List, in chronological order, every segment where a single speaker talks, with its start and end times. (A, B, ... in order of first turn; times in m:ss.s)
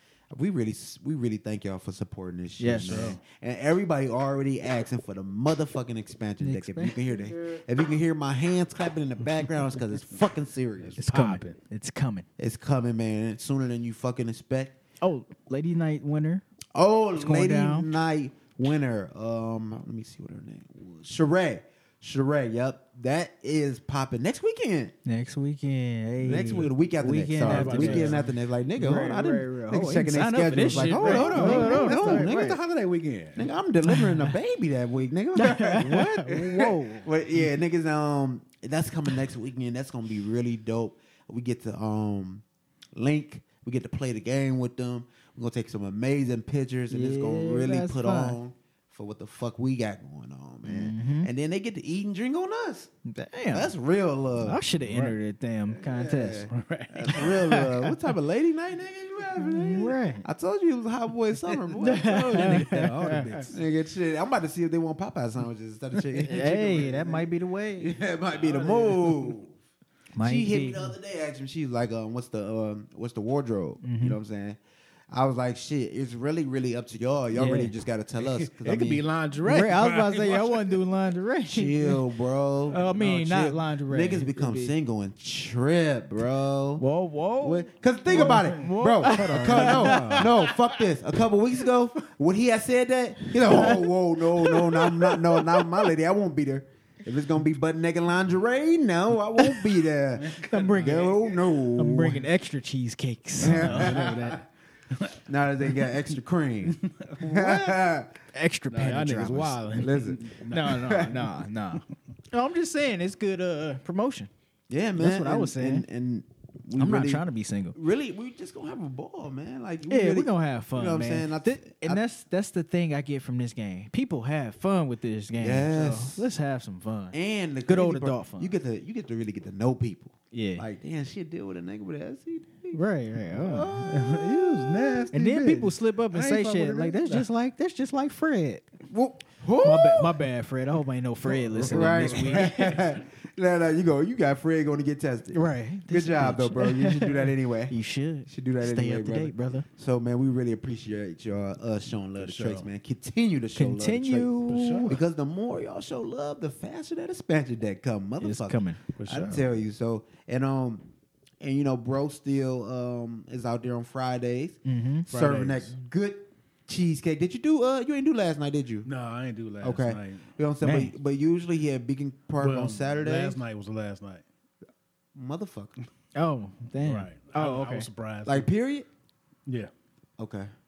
0:00.3-0:11.0 A
0:02.6-0:03.2 B
0:02.8-0:03.2 C
0:06.4-0:07.1 B
0:10.8-0:11.6 C
0:11.0-0:12.3 B
0:12.4-0:14.7 A
0:15.0-0:16.4 B
0:16.8-0:24.9 A
0:17.2-0:17.9 B
0:25.0-0:28.3 B
0:26.2-0:32.6 A
0:27.4-0:28.3 C
0:28.8-0:32.6 B
0:30.5-0:33.5 C
0:33.4-0:42.4 A
0:33.8-0:34.4 B
0:35.4-0:37.1 B
0:43.0-0:52.9 A
0:46.9-0:48.4 B
0:50.6-0:51.3 B
0:53.1-0:53.7 B
0:53.5-0:54.6 A
0:54.4-0:56.5 B
0:54.8-0:55.2 C
0:55.7-1:02.8 A
0:56.5-0:58.0 C
0:57.2-0:57.5 B
0:59.4-1:00.2 B
1:01.4-1:03.6 C
1:01.8-1:03.5 B
1:03.5-1:07.3 A
1:06.0-1:07.2 C
1:06.2-1:07.9 B
1:07.8-1:09.5 A
1:08.3-1:09.4 C
1:10.2-1:10.9 B
1:10.2-1:14.6 A
1:13.8-1:14.2 B
1:15.1-1:19.0 A
1:17.3-1:17.7 B
1:18.2-1:20.8 C
1:19.4-1:22.0 B
1:21.5-1:26.8 A
1:22.7-1:24.7 B
1:26.8-1:30.4 B
1:27.4-1:42.2 A
1:28.1-1:30.8 C
1:33.4-1:35.9 B
1:40.2-1:41.2 C
1:40.4-1:44.4 B
1:43.4-1:44.4 A
1:43.4-1:46.0 C
1:45.3-1:48.1 A
1:46.7-1:47.8 C
1:48.3-1:54.3 B
1:48.7-1:51.8 C
1:49.8-1:51.2 A
1:54.7-2:02.0 A
1:55.0-1:55.9 B
1:56.8-1:57.8 B
1:59.9-2:08.5 B
2:05.4-2:06.2 A
2:07.1-2:12.8 A
2:10.3-2:10.6 B
2:12.7-2:13.8 B
2:13.3-2:15.1 A
2:13.6-2:17.3 C
2:15.1-2:18.8 B
2:18.9-2:20.2 A
2:19.6-2:22.8 B
2:21.3-2:22.8 C
2:21.4-2:27.8 A
2:25.3-2:29.7 B
2:28.3-2:40.9 A
2:32.2-2:32.7 C
2:33.6-2:35.0 B
2:34.5-2:35.0 C
2:38.2-2:38.8 B
2:39.0-2:39.5 C
2:41.4-2:48.9 A
2:44.6-2:45.1 B
2:45.1-2:45.8 C
2:48.8-2:50.3 C
2:49.6-2:53.4 A
2:50.6-2:50.9 B
2:52.4-2:54.2 C
2:55.2-2:55.8 A
2:56.2-2:57.9 B
2:56.8-2:58.5 C
2:58.3-2:58.9 A
2:59.5-2:59.7 C
3:00.2-3:00.5 A